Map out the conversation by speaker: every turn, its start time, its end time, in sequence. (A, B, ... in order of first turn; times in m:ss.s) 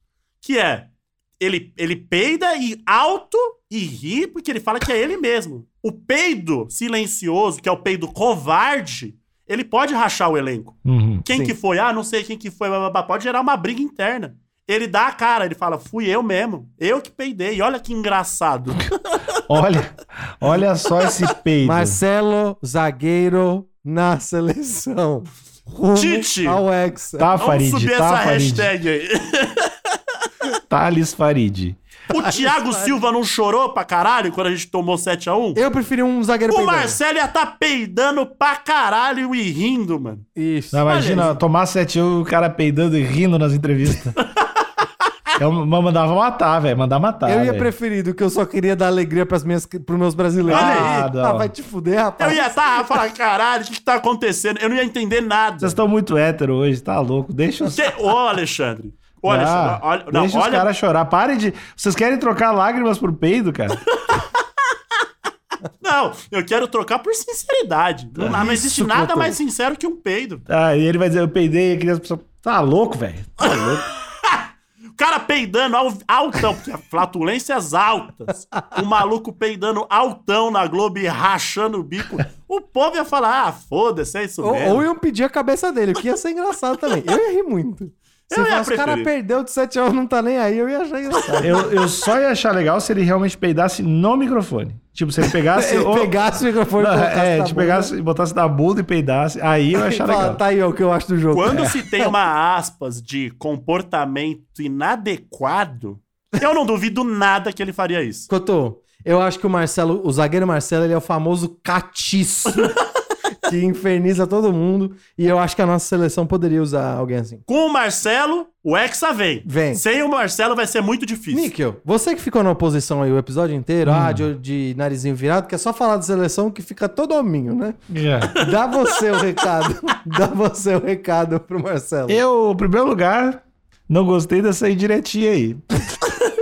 0:00.4-0:19.3 A
0:10.8-0:11.3 B
0:11.3-0:11.6 C
0:19.5-0:22.0 B
0:21.6-0:27.4 C
0:25.9-0:26.6 A
0:27.2-0:28.7 B
0:27.4-0:30.3 A
0:30.7-0:31.8 B
0:32.1-0:35.6 A
0:32.2-0:33.0 C
0:35.6-0:37.0 C
0:36.5-0:40.2 A
0:40.4-0:41.3 C
0:40.7-0:44.1 B
0:40.9-0:41.4 A
0:44.2-0:44.5 A
0:45.4-0:47.7 B
0:47.2-0:53.0 C
0:50.5-0:51.0 A
0:50.6-0:51.5 B
0:52.2-0:55.8 A
0:55.6-0:57.8 B
0:57.6-1:00.7 A
0:59.2-1:03.8 B
1:04.0-1:04.3 A
1:05.8-1:10.4 A
1:08.2-1:08.6 B
1:08.3-1:09.4 C
1:10.5-1:13.8 B
1:13.4-1:24.9 A
1:24.4-1:31.7 C
1:28.3-1:29.1 A
1:31.4-1:36.1 B
1:35.5-1:37.9 C
1:36.8-1:40.4 B
1:39.7-1:42.2 C
1:41.3-1:48.3 A
1:48.3-1:52.8 C
1:52.5-1:52.8 A
1:53.5-1:57.4 C
1:57.5-2:01.5 A
1:59.4-1:59.8 C
2:01.3-2:07.8 C
2:03.8-2:04.3 B
2:07.9-2:08.4 B
2:08.4-2:12.2 C
2:12.1-2:15.6 B